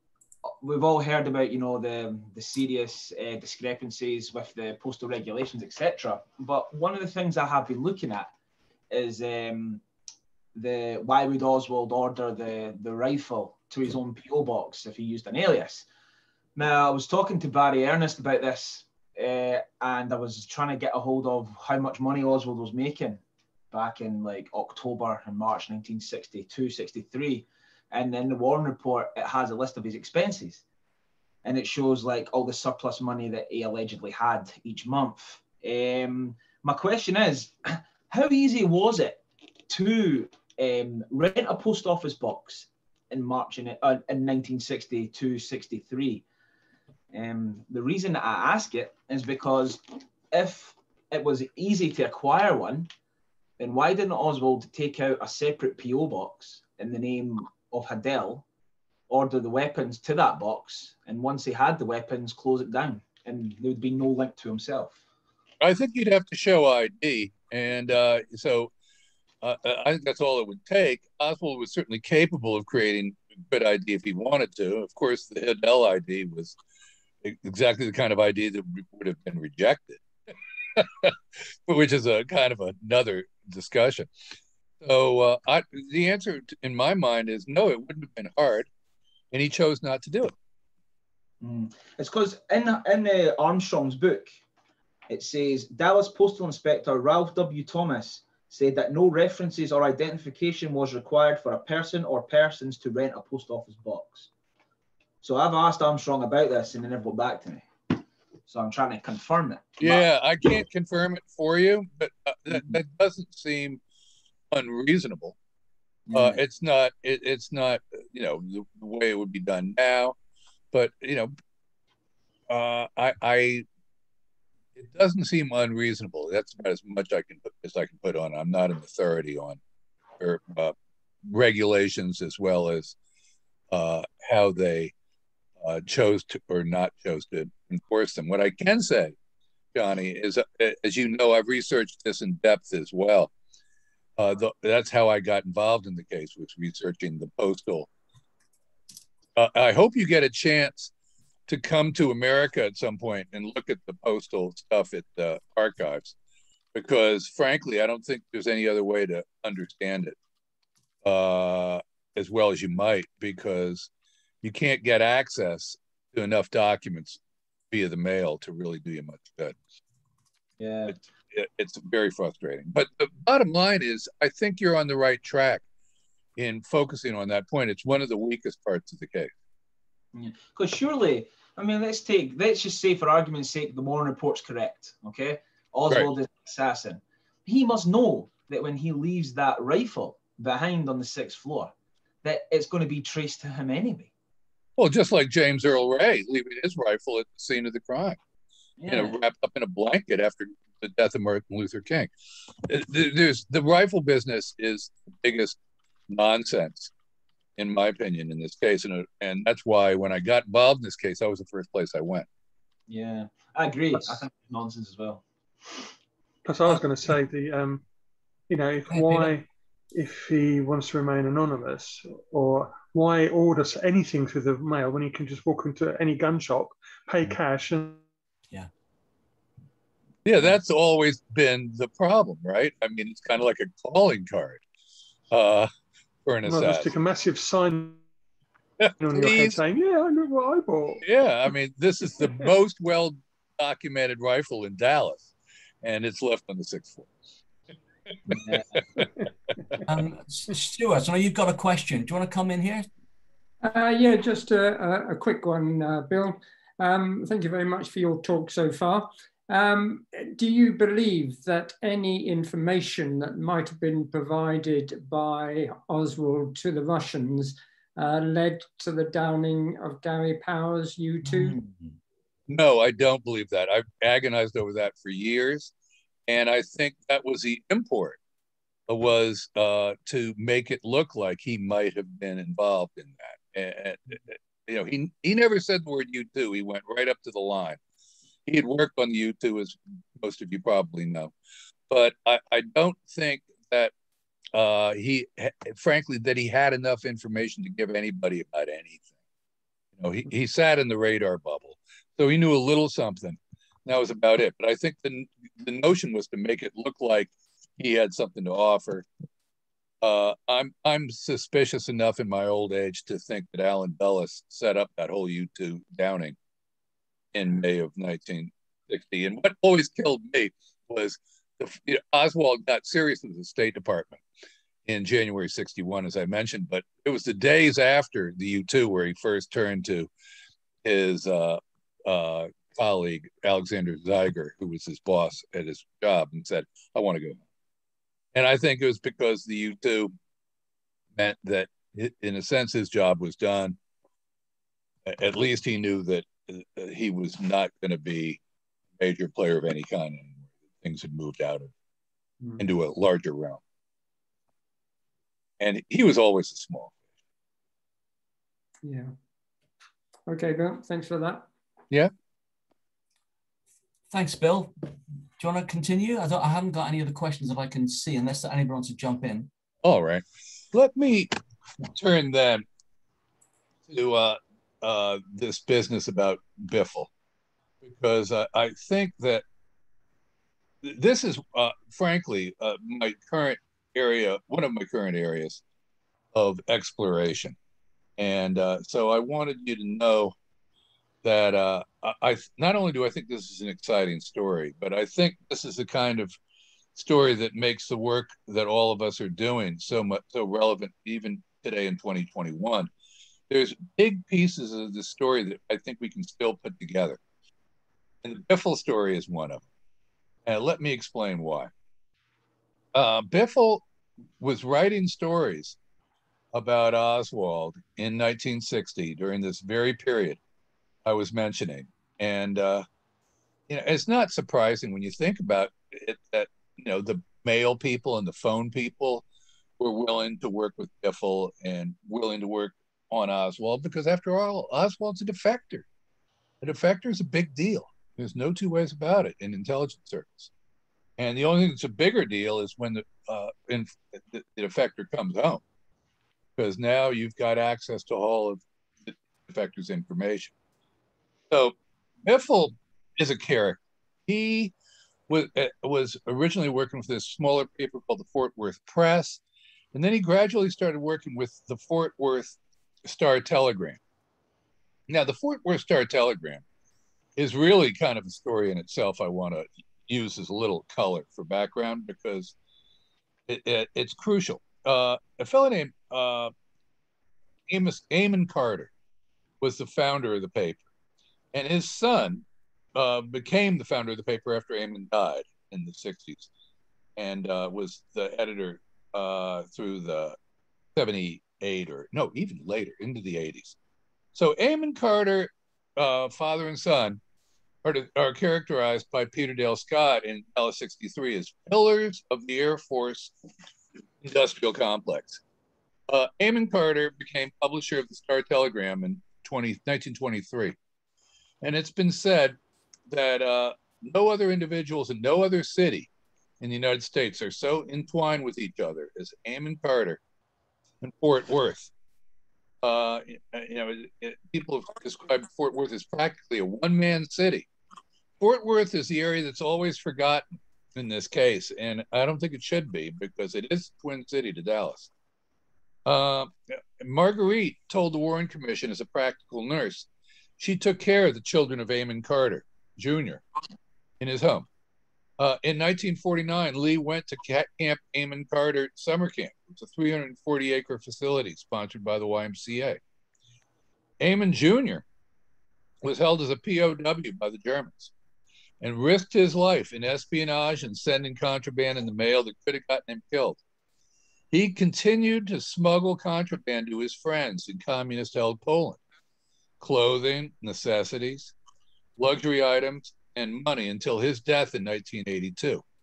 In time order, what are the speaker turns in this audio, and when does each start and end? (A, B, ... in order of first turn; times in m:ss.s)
0:00.5-0:08.3 A
0:08.9-0:09.8 A
0:10.6-0:15.9 A
0:16.6-0:30.6 A
0:31.4-0:46.2 A
0:47.1-0:52.9 A
0:53.6-0:58.5 A
0:59.1-1:05.0 A
1:05.6-1:08.7 B
1:09.4-1:16.6 B
1:17.2-1:20.0 B
1:20.7-1:24.1 B
1:24.8-1:28.7 B
1:29.3-1:30.4 B
1:31.4-1:34.4 A
1:35.1-1:44.3 A
1:45.2-1:50.6 A
1:49.8-1:53.8 B
1:52.5-1:52.8 A
1:54.5-1:55.4 B
1:56.1-1:56.4 A
1:56.1-2:00.2 B
2:00.7-2:01.3 B
2:02.5-2:03.7 B
2:04.8-2:09.6 B
2:10.2-2:13.0 B
2:13.7-2:14.9 B
2:15.6-2:19.2 B
2:19.7-2:23.3 B
2:24.2-2:27.9 B
2:29.4-2:30.9 B
2:31.5-2:36.2 B
2:36.7-2:40.2 B
2:41.0-2:43.9 B
2:44.4-2:47.2 B
2:47.7-2:49.6 B
2:50.6-2:51.0 A
2:50.9-2:55.6 B
2:56.4-2:59.3 B
3:00.1-3:11.7 A
3:12.2-3:14.1 A
3:14.8-3:18.2 B
3:18.8-3:19.2 A
3:18.9-3:22.1 B
3:22.6-3:25.6 B
3:26.1-3:26.9 B
3:27.6-3:32.3 B
3:32.9-3:35.9 A
3:36.5-3:37.8 C
3:38.5-3:48.0 C
3:38.9-3:39.4 D
3:50.2-3:54.6 B
3:55.3-3:55.7 B
3:56.2-3:57.0 B
3:56.4-3:58.0 C
3:58.8-3:59.6 B
3:59.0-4:01.0 C
4:01.0-4:05.3 B
4:05.8-4:07.1 B
4:08.3-4:09.2 B
4:08.3-4:09.0 A
4:09.8-4:12.9 D
4:13.6-4:31.6 E
4:31.2-4:31.9 D
4:32.5-4:35.7 B
4:36.3-4:38.2 B
4:38.9-4:47.8 B
4:48.5-4:51.3 B
4:51.9-4:53.9 B
4:54.5-4:59.1 B
5:00.0-5:09.1 B
5:10.0-5:16.4 B
5:17.3-5:24.2 B
5:24.9-5:30.1 B
5:30.8-5:37.4 B
5:38.3-5:40.1 B
5:41.2-5:43.8 B
5:45.0-5:48.4 B
5:49.0-5:51.7 B
5:52.6-5:53.6 B
5:55.6-5:57.0 B
5:58.8-5:59.1 E
6:00.3-6:01.5 E
6:04.1-6:04.7 D
6:05.4-6:09.5 D
6:09.8-6:12.6 B
6:13.9-6:17.1 B
6:17.8-6:19.4 B
6:20.8-6:25.6 B
6:26.3-6:27.6 B
6:28.2-6:30.4 B
6:31.2-6:36.3 B
6:37.0-6:42.9 B
6:43.5-6:47.2 B
6:48.2-6:49.6 B
6:50.5-6:51.7 B
6:52.9-6:53.8 B
6:54.4-6:55.8 B
6:56.5-7:00.4 B
7:01.0-7:02.8 B
7:03.7-7:09.2 B
7:09.8-7:15.9 B
7:16.6-7:20.5 B
7:21.2-7:25.6 B
7:26.6-7:30.5 B
7:31.5-7:34.7 B
7:35.3-7:39.4 B
7:39.9-7:44.0 B
7:45.1-7:46.6 B
7:47.4-7:52.6 B
7:53.5-7:56.5 B
7:57.7-7:58.9 B
7:59.6-8:00.8 B
8:01.5-8:06.5 B
8:07.2-8:10.4 B
8:11.0-8:13.8 B
8:14.3-8:17.2 B
8:17.8-8:23.3 B
8:24.2-8:25.4 B
8:26.1-8:30.8 B
8:31.6-8:32.6 B
8:33.1-8:36.1 B
8:36.6-8:40.2 B
8:41.0-8:41.9 B
8:42.8-8:47.7 B
8:48.4-8:55.1 B
8:56.1-9:00.1 B
9:00.6-9:03.4 B
9:04.2-9:04.7 B
9:05.4-9:13.0 B
9:14.2-9:15.0 B
9:16.0-9:18.1 B
9:18.8-9:23.6 B
9:24.5-9:29.0 B
9:29.8-9:31.5 B
9:32.2-9:35.8 B